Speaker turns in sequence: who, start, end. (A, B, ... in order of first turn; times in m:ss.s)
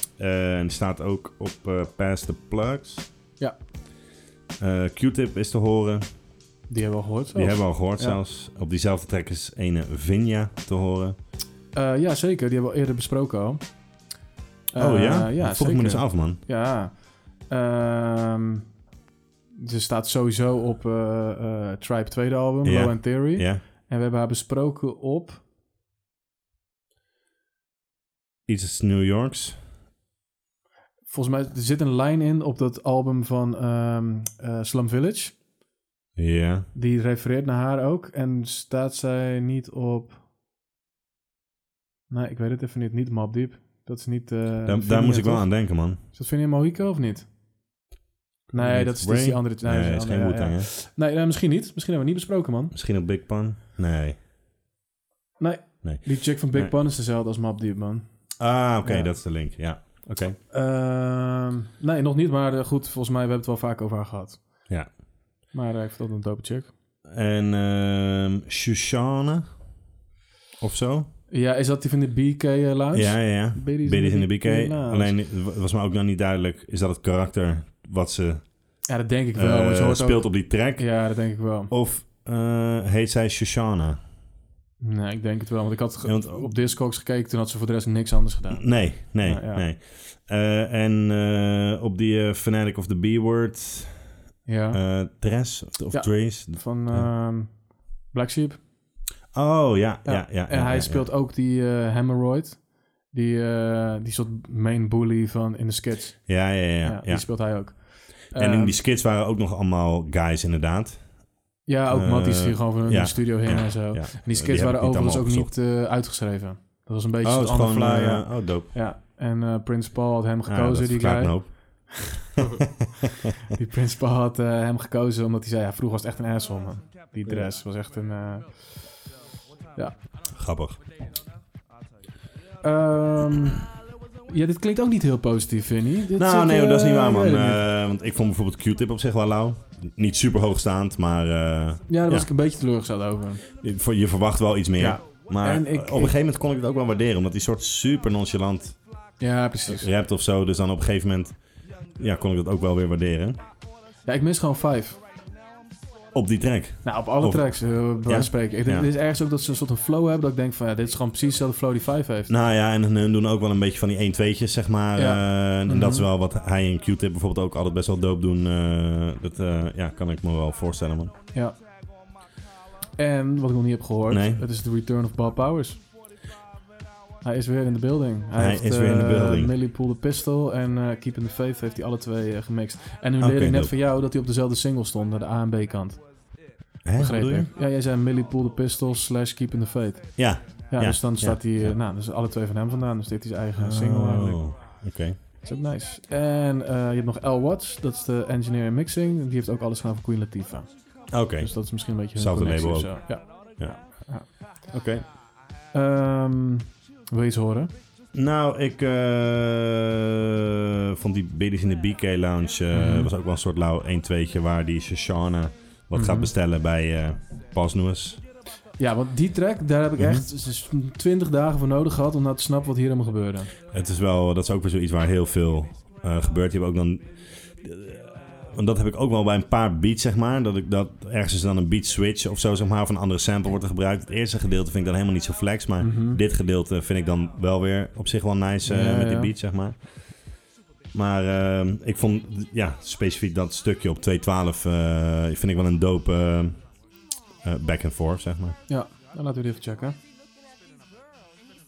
0:00.2-0:03.1 A
0:04.6-0:06.1 A
0:06.7-0:08.2 B
0:07.3-0:11.2 A
0:11.7-0:13.6 B
0:14.7-0:18.7 B
0:14.8-0:16.4 A
0:19.6-0:25.4 B
0:22.6-0:23.6 A
0:28.5-0:29.6 A
0:31.1-0:35.4 B
0:36.2-0:36.7 A
0:36.7-0:40.2 B
0:42.1-0:47.3 B
0:44.6-0:46.0 A
0:48.5-0:50.7 A
0:48.5-0:52.7 B
0:52.7-0:54.2 A
0:55.4-0:58.3 B
0:55.8-0:56.7 A
0:58.4-1:00.4 A
0:58.8-0:59.1 B
1:00.5-1:04.7 B
1:05.5-1:06.7 B
1:07.1-1:09.5 A
1:10.6-1:11.1 A
1:11.3-1:15.2 B
1:12.9-1:24.0 A
1:18.9-1:21.7 B
1:24.8-1:29.6 B
1:26.0-1:26.5 A
1:28.5-1:34.0 A
1:34.4-1:34.8 B
1:34.7-1:37.1 A
1:35.9-1:38.6 B
1:39.3-1:41.1 A
1:40.0-1:48.8 B
1:46.3-1:51.3 A
1:51.7-2:01.9 B
1:51.9-1:55.5 A
1:57.2-1:58.7 A
2:00.5-2:02.4 A
2:03.5-2:08.8 B
2:10.3-2:10.8 A
2:12.6-2:13.7 B
2:14.3-2:17.6 B
2:16.2-2:22.3 A
2:21.9-2:23.4 B
2:23.6-2:28.8 A
2:24.8-2:26.2 B
2:29.2-2:29.9 B
2:29.7-2:31.4 A
2:32.0-2:33.4 A
2:34.0-2:35.0 B
2:36.1-2:38.9 A
2:36.8-2:42.3 B
2:42.3-2:51.1 A
2:45.0-2:46.1 B
2:51.3-2:51.6 B
2:53.0-2:55.8 B
2:54.1-2:54.4 A
2:57.2-3:06.1 B
2:58.4-2:59.5 A
3:03.2-3:03.7 A
3:06.8-3:07.5 A
3:07.0-3:14.5 B
3:10.2-3:11.8 A
3:13.6-3:15.2 A
3:15.4-3:24.3 B
3:21.1-3:23.8 A
3:24.7-3:25.1 A
3:25.7-3:27.7 B
3:28.1-3:38.2 A
3:32.7-3:33.1 B
3:35.9-3:36.3 B
3:38.8-3:43.5 B
3:40.0-3:40.3 A
3:43.7-4:00.2 A
3:55.8-3:56.2 B
3:58.6-3:59.3 B
4:00.9-4:06.6 A
4:07.4-4:08.6 A
4:08.7-4:10.0 B